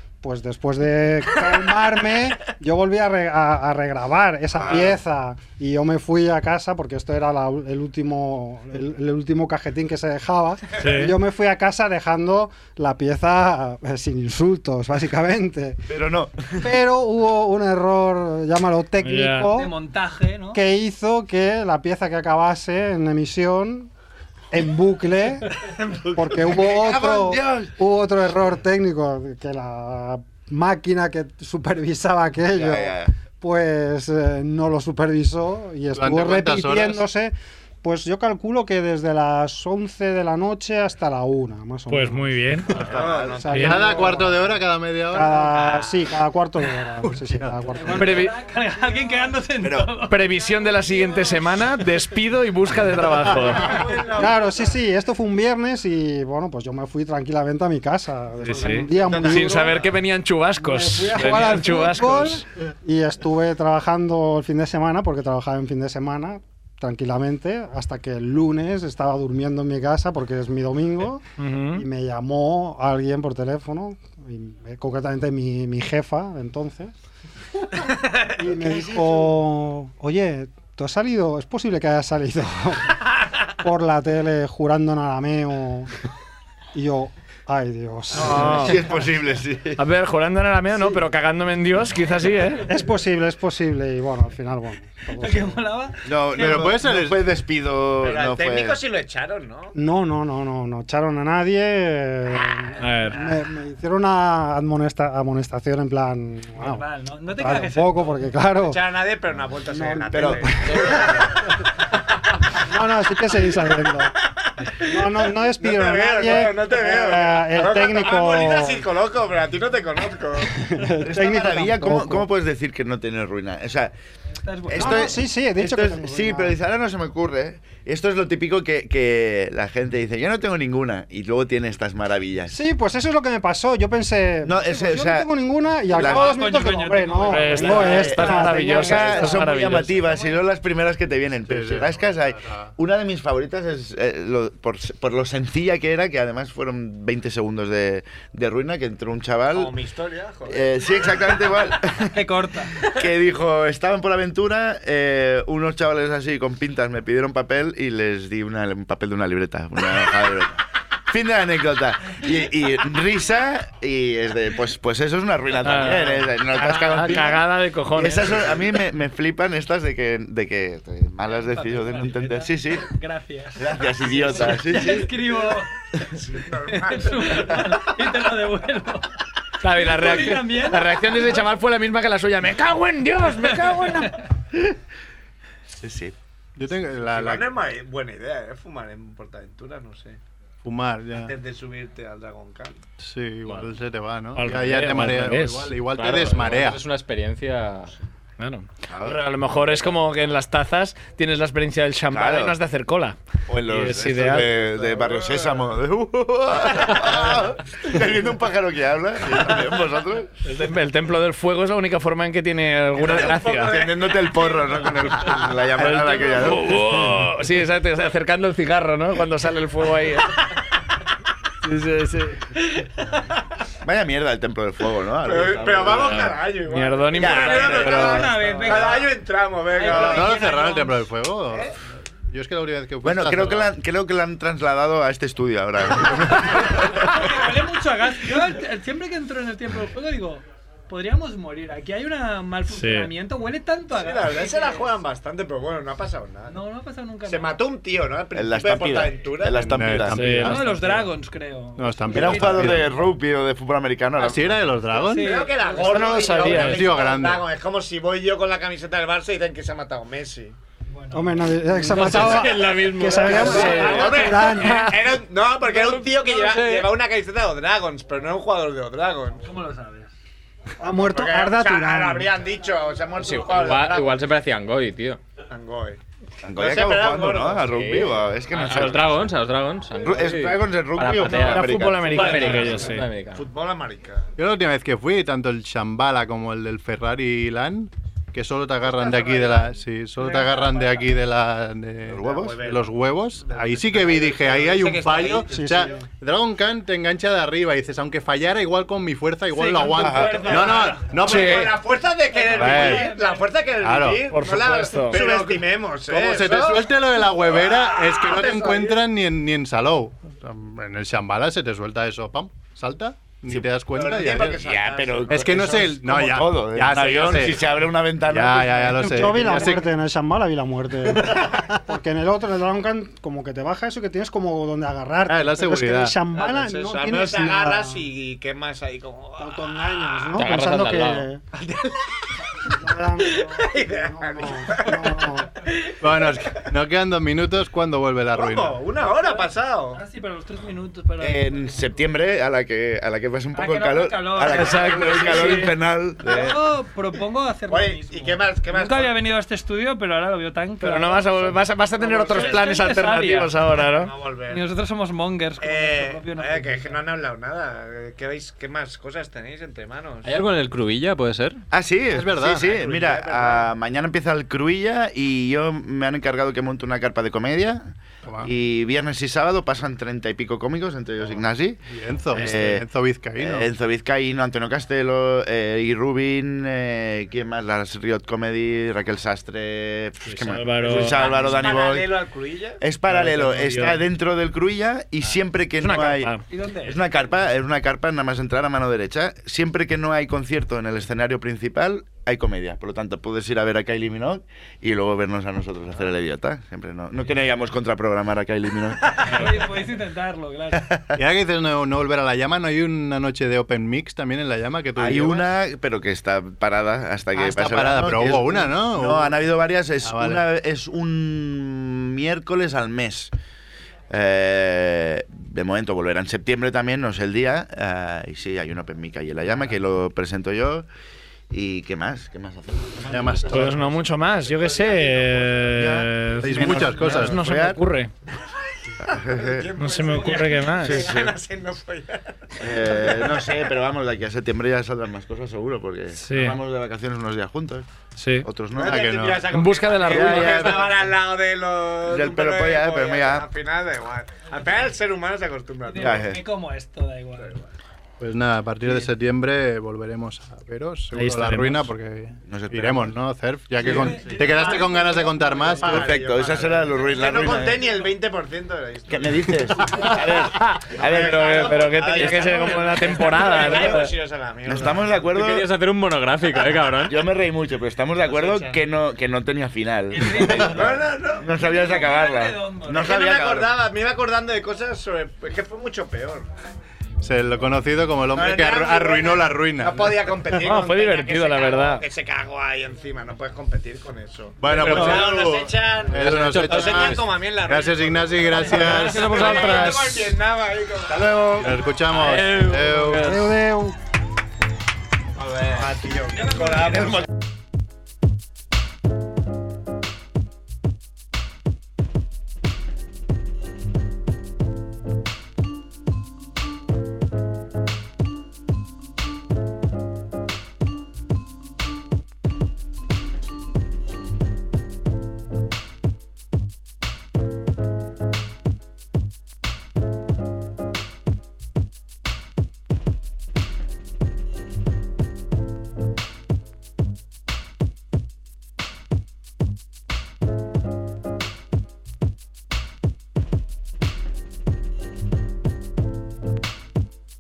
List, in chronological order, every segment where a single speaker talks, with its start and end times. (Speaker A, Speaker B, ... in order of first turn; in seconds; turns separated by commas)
Speaker A: 0.2-15.8, Speaker B: 4.6-4.9, Speaker C: 10.8-11.1, Speaker B: 15.9-16.7, Speaker A: 16.6-19.7, Speaker C: 19.0-19.5, Speaker D: 19.5-20.6, Speaker A: 20.5-23.9, Speaker A: 24.5-25.5, Speaker A: 26.1-42.4, Speaker B: 26.3-27.7, Speaker B: 32.5-33.1, Speaker E: 35.9-37.0, Speaker C: 41.9-42.7, Speaker B: 42.8-43.4, Speaker F: 42.8-44.5, Speaker A: 43.2-44.4, Speaker C: 43.5-43.9, Speaker E: 43.5-45.5, Speaker A: 45.1-48.3, Speaker F: 45.5-45.9, Speaker E: 47.0-47.6, Speaker D: 47.7-51.6, Speaker C: 47.9-48.3, Speaker B: 49.6-49.9, Speaker C: 50.0-53.7, Speaker F: 53.4-54.6, Speaker A: 53.5-59.8, Speaker C: 58.4-62.4, Speaker F: 58.6-59.8, Speaker A: 60.6-76.9, Speaker C: 71.4-71.8, Speaker A: 78.3-83.0, Speaker F: 78.4-79.2, Speaker A: 83.6-85.9, Speaker A: 86.7-89.0, Speaker C: 88.1-88.8, Speaker B: 88.2-89.8, Speaker C: 89.8-92.6, Speaker A: 92.7-95.6, Speaker D: 95.2-96.6, Speaker B: 96.0-98.8, Speaker E: 96.3-97.4, Speaker F: 98.0-99.7, Speaker A: 99.7-108.9, Speaker C: 102.8-103.2, Speaker D: 106.6-108.2, Speaker F: 108.6-111.3, Speaker A: 109.6-111.3, Speaker B: 110.1-110.5, Speaker A: 112.7-114.1, Speaker A: 114.8-118.8, Speaker F: 114.9-120.6, Speaker A: 120.5-122.3, Speaker B: 121.0-123.9, Speaker D: 124.4-125.1, Speaker B: 124.7-132.5, Speaker A: 124.8-126.6, Speaker A: 132.5-139.4, Speaker B: 134.4-135.3, Speaker D: 135.9-138.5, Speaker B: 136.0-136.3, Speaker C: 137.3-139.9, Speaker F: 137.6-138.1, Speaker B: 137.9-149.7, Speaker E: 141.5-142.7, Speaker F: 149.5-151.1, Speaker B: 150.5-152.2, Speaker D: 152.0-152.9, Speaker B: 152.8-172.9, Speaker C: 165.6-168.4, Speaker D: 171.3-175.8, Speaker B: 173.6-175.1, Speaker F: 176.1-178.0, Speaker D: 176.7-179.1, Speaker C: 179.6-184.2, Speaker D: 179.7-181.4, Speaker D: 183.4-184.1, Speaker B: 185.8-186.1, Speaker E: 186.6-187.5, Speaker F: 187.0-190.2, Speaker E: 190.6-191.3, Speaker F: 191.1-192.8, Speaker E: 193.0-196.8, Speaker C: 194.3-195.7, Speaker G: 195.9-197.9, Speaker C: 198.4-204.5, Speaker B: 198.9-199.2, Speaker B: 202.1-202.6, Speaker B: 203.5-210.3, Speaker F: 204.3-205.6, Speaker F: 206.6-207.6, Speaker C: 210.4-213.8, Speaker F: 212.9-215.4, Speaker B: 213.1-217.1, Speaker C: 215.8-220.4, Speaker C: 221.6-222.5, Speaker F: 222.8-223.4, Speaker B: 223.8-226.2, Speaker F: 225.2-230.7, Speaker G: 225.9-226.3, Speaker C: 225.9-228.8, Speaker B: 227.1-228.0, Speaker D: 227.3-231.0, Speaker E: 229.8-233.7, Speaker B: 233.0-237.5, Speaker D: 236.6-244.9, Speaker C: 242.7-243.1, Speaker F: 243.9-246.6, Speaker D: 246.5-247.6, Speaker F: 247.2-250.1, Speaker B: 248.3-250.4, Speaker E: 249.5-250.9, Speaker C: 250.1-250.6, Speaker D: 250.4-253.0, Speaker E: 251.8-252.9, Speaker B: 252.1-254.6, Speaker E: 254.1-255.4, Speaker D: 255.0-256.6, Speaker F: 255.1-260.6, Speaker C: 255.7-256.9, Speaker E: 256.4-257.5, Speaker D: 260.9-262.2, Speaker A: 261.1-264.9, Speaker G: 261.8-264.2, Speaker C: 262.1-262.8, Speaker F: 263.2-269.5, Speaker D: 263.3-264.6, Speaker C: 263.4-264.9, Speaker C: 265.7-266.8, Speaker D: 266.2-266.6, Speaker D: 269.4-270.1, Speaker A: 270.8-272.3, Speaker F: 270.9-274.1, Speaker G: 273.3-275.2, Speaker F: 275.5-276.0, Speaker B: 276.4-279.3, Speaker F: 276.6-277.8, Speaker G: 277.7-283.4, Speaker F: 278.7-278.9, Speaker B: 280.0-282.4, Speaker C: 281.2-283.1, Speaker F: 282.1-284.2, Speaker D: 282.4-282.8, Speaker E: 284.4-301.9, Speaker F: 288.9-289.6, Speaker D: 290.2-291.0, Speaker B: 292.1-292.6, Speaker F: 292.2-296.0, Speaker A: 295.4-295.9, Speaker D: 299.5-301.4, Speaker B: 299.9-300.4, Speaker F: 300.4-309.0, Speaker D: 302.3-303.6, Speaker E: 302.5-303.1, Speaker E: 303.8-304.3, Speaker C: 304.3-305.2, Speaker E: 305.1-314.6, Speaker F: 313.9-315.9, Speaker B: 314.2-319.7, Speaker E: 315.3-317.6, Speaker F: 316.9-317.4, Speaker E: 318.3-319.9, Speaker A: 319.0-328.1, Speaker E: 321.0-321.7, Speaker E: 325.3-326.1, Speaker F: 326.3-330.4, Speaker A: 329.4-331.4, Speaker G: 330.3-331.3, Speaker F: 331.5-332.0, Speaker A: 332.7-335.5, Speaker F: 333.2-335.3, Speaker F: 335.9-336.3, Speaker E: 336.0-338.8, Speaker F: 338.4-340.0, Speaker D: 339.0-342.0, Speaker B: 341.2-346.6, Speaker D: 343.5-351.6, Speaker C: 344.4-345.7, Speaker F: 347.7-349.1, Speaker C: 350.8-354.1, Speaker F: 352.0-352.7, Speaker D: 352.2-353.6, Speaker F: 353.8-354.6, Speaker D: 354.5-357.0, Speaker F: 355.6-360.4, Speaker G: 360.2-361.6, Speaker B: 361.7-371.8, Speaker E: 362.1-362.8, Speaker F: 362.6-363.7, Speaker E: 368.2-368.5, Speaker E: 371.9-373.7, Speaker B: 372.3-372.8, Speaker B: 373.4-382.2, Speaker C: 380.2-381.3, Speaker F: 380.8-382.8, Speaker B: 382.8-399.6, Speaker C: 383.1-384.0, Speaker C: 385.8-386.4, Speaker D: 386.4-387.3, Speaker D: 399.3-400.9, Speaker B: 400.7-401.2, Speaker E: 401.1-405.5, Speaker B: 405.0-413.3, Speaker E: 407.3-409.4, Speaker E: 410.0-410.4, Speaker B: 414.1-420.9, Speaker B: 421.5-423.5, Speaker F: 423.1-423.8, Speaker E: 423.1-423.9, Speaker C: 423.5-428.1, Speaker F: 424.4-425.6, Speaker B: 425.7-427.8, Speaker E: 426.4-427.4, Speaker F: 429.0-433.6, Speaker B: 429.1-429.7, Speaker C: 429.8-431.0, Speaker D: 430.1-430.8, Speaker B: 430.8-431.3, Speaker B: 432.6-437.9, Speaker C: 436.1-436.6, Speaker C: 438.1-438.5, Speaker B: 438.4-439.2, Speaker F: 438.7-446.4, Speaker E: 438.7-439.5, Speaker C: 439.5-440.8, Speaker B: 440.1-440.9, Speaker B: 442.0-443.5, Speaker D: 445.9-447.6, Speaker B: 446.0-446.4, Speaker F: 447.4-447.6, Speaker E: 448.2-456.2, Speaker C: 451.1-451.9, Speaker B: 452.5-453.1, Speaker D: 453.8-455.9, Speaker F: 453.8-455.0, Speaker F: 455.8-460.4, Speaker B: 455.9-457.8, Speaker B: 459.1-462.8, Speaker C: 460.3-464.1, Speaker F: 460.9-465.3, Speaker B: 464.6-465.7, Speaker G: 465.3-467.2, Speaker B: 467.1-473.7, Speaker F: 468.2-468.8, Speaker D: 470.1-473.1, Speaker F: 470.6-472.0, Speaker F: 472.9-476.5, Speaker E: 477.2-480.6, Speaker F: 478.3-491.6, Speaker C: 480.6-482.0, Speaker E: 484.6-489.4, Speaker G: 484.9-485.3, Speaker G: 486.2-487.2, Speaker D: 488.5-489.8, Speaker G: 488.9-490.3, Speaker B: 491.1-491.8, Speaker E: 491.6-493.4, Speaker G: 492.1-493.5, Speaker A: 493.1-494.0, Speaker F: 495.4-497.3, Speaker D: 496.4-497.1